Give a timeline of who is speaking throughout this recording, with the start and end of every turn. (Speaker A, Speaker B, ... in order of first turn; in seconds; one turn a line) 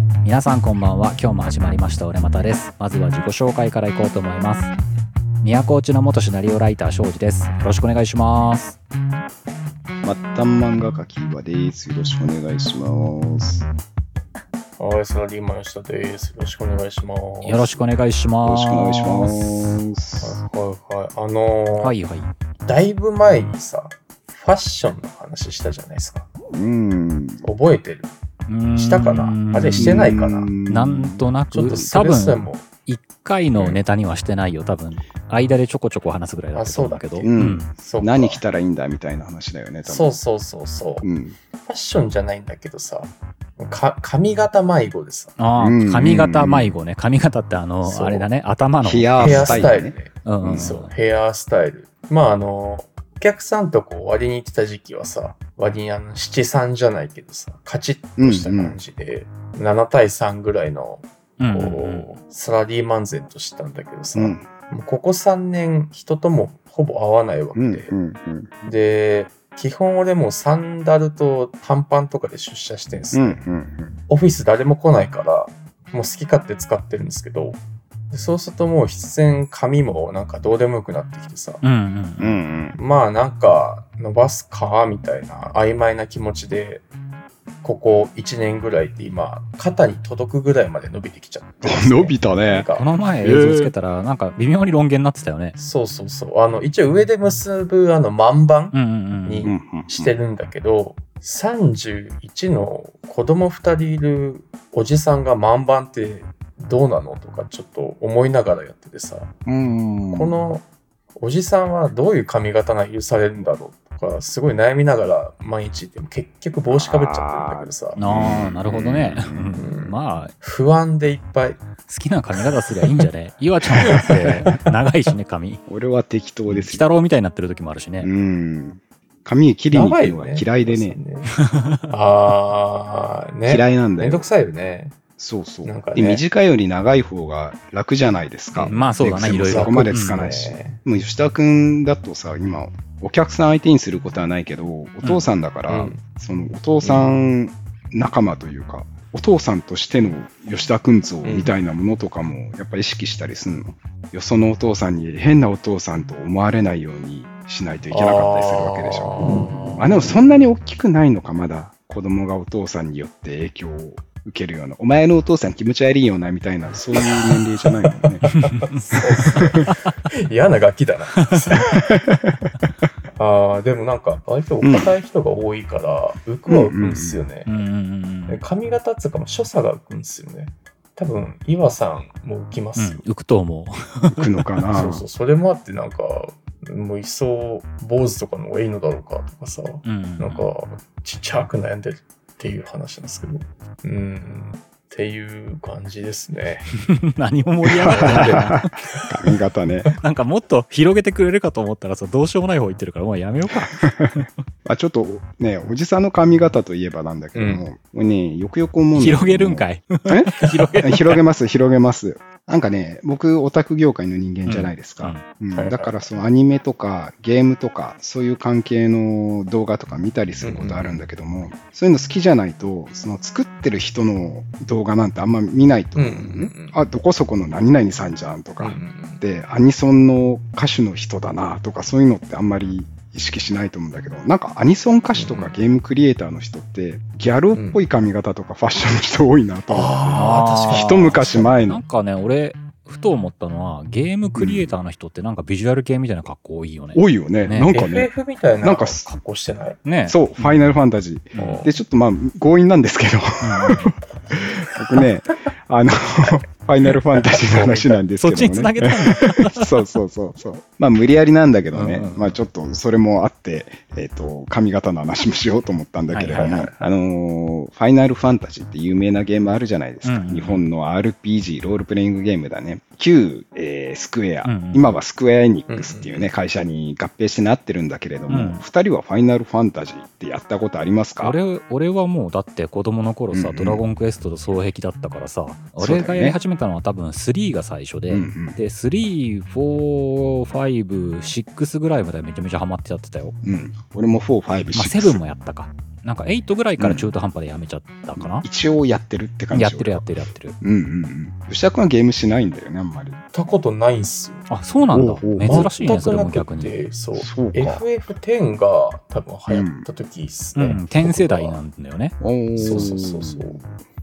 Speaker A: 0.2-4.7
Speaker A: 5.4-8.8
Speaker B: 10.0-13.7
Speaker C: 14.8-17.8
Speaker A: 17.4-19.8
Speaker B: 18.4-20.3
Speaker C: 20.2-21.9
Speaker A: 21.8-22.3
Speaker C: 22.7-26.3
Speaker B: 26.5-27.4
Speaker C: 27.4-28.1
Speaker A: 28.5-30.1
Speaker C: 28.7-30.5
Speaker B: 29.8-31.3
Speaker A: 30.7-37.7
Speaker C: 31.5-32.7
Speaker C: 36.5-38.4
Speaker B: 37.2-40.2
Speaker C: 39.8-41.1
Speaker B: 41.0-41.4
Speaker C: 41.6-45.4
Speaker A: 45.4-50.9
Speaker B: 45.6-46.8
Speaker C: 47.8-48.3
Speaker B: 48.8-50.7
Speaker C: 49.2-67.9
Speaker B: 58.2-58.8
Speaker A: 61.4-62.1
Speaker B: 64.1-64.5
Speaker B: 67.5-68.5
Speaker C: 68.6-73.4
Speaker B: 73.1-74.0
Speaker C: 74.1-81.6
Speaker A: 81.6-82.3
Speaker B: 82.2-82.8
Speaker C: 82.8-86.9
Speaker C: 87.6-92.9
Speaker B: 91.6-92.7
Speaker A: 92.8-95.6
Speaker B: 93.2-93.7
Speaker C: 95.6-109.3
Speaker A: 98.7-99.5
Speaker B: 99.4-100.1
Speaker B: 109.5-110.3
Speaker C: 110.1-110.6
Speaker C: 111.2-118.0
Speaker B: 116.7-119.6
Speaker A: 118.0-120.3
Speaker C: 119.5-121.6
Speaker A: 121.9-125.6
Speaker C: 123.8-124.7
Speaker B: 125.7-126.8
Speaker A: 126.5-128.1
Speaker B: 128.0-131.0
Speaker C: 129.7-131.3
Speaker A: 131.4-131.9
Speaker C: 131.9-135.0
Speaker B: 133.4-134.3
Speaker B: 135.2-168.4
Speaker C: 135.7-136.2
Speaker C: 138.6-140.8
Speaker A: 138.6-140.2
Speaker C: 145.7-146.0
Speaker C: 146.8-147.1
Speaker C: 151.2-151.5
Speaker C: 157.9-160.3
Speaker C: 167.9-172.0
Speaker A: 168.3-169.8
Speaker B: 169.2-169.6
Speaker A: 171.2-171.5
Speaker B: 171.7-172.4
Speaker C: 173.2-177.5
Speaker B: 174.6-174.9
Speaker B: 176.5-177.2
Speaker A: 177.4-178.4
Speaker C: 178.3-183.0
Speaker A: 182.8-184.4
Speaker B: 184.1-185.0
Speaker C: 184.7-196.8
Speaker A: 189.8-190.4
Speaker A: 196.8-198.7
Speaker B: 197.6-199.9
Speaker C: 197.9-198.4
Speaker A: 199.8-204.2
Speaker B: 203.7-204.1
Speaker B: 204.7-241.8
Speaker C: 207.3-207.6
Speaker A: 208.9-211.2
Speaker A: 214.4-215.2
Speaker C: 215.5-216.1
Speaker C: 220.4-221.0
Speaker C: 225.9-226.8
Speaker C: 228.6-229.2
Speaker C: 235.2-235.5
Speaker C: 237.5-237.8
Speaker C: 239.7-241.2
Speaker A: 240.1-247.7
Speaker B: 244.3-244.7
Speaker B: 246.9-248.1
Speaker C: 247.7-249.8
Speaker B: 248.6-249.1
Speaker A: 249.8-250.6
Speaker B: 250.1-281.4
Speaker A: 251.3-251.7
Speaker C: 251.4-251.7
Speaker A: 253.4-253.9
Speaker C: 257.2-257.8
Speaker A: 258.2-259.7
Speaker A: 261.7-262.3
Speaker A: 266.1-266.6
Speaker C: 266.3-266.7
Speaker A: 270.1-270.7
Speaker A: 274.4-275.0
Speaker C: 275.7-276.3
Speaker A: 278.3-278.6
Speaker A: 281.2-293.4
Speaker B: 283.3-283.8
Speaker B: 285.8-286.4
Speaker B: 288.1-288.6
Speaker B: 293.4-295.2
Speaker A: 294.7-298.4
Speaker B: 296.8-297.1
Speaker B: 298.2-300.1
Speaker A: 299.5-300.6
Speaker B: 300.6-303.2
Speaker C: 303.3-304.5
Speaker A: 304.5-306.8
Speaker B: 304.9-305.8
Speaker C: 305.4-311.6
Speaker B: 307.1-307.8
Speaker B: 309.5-309.9
Speaker A: 310.6-312.1
Speaker B: 312.2-313.6
Speaker C: 312.6-313.6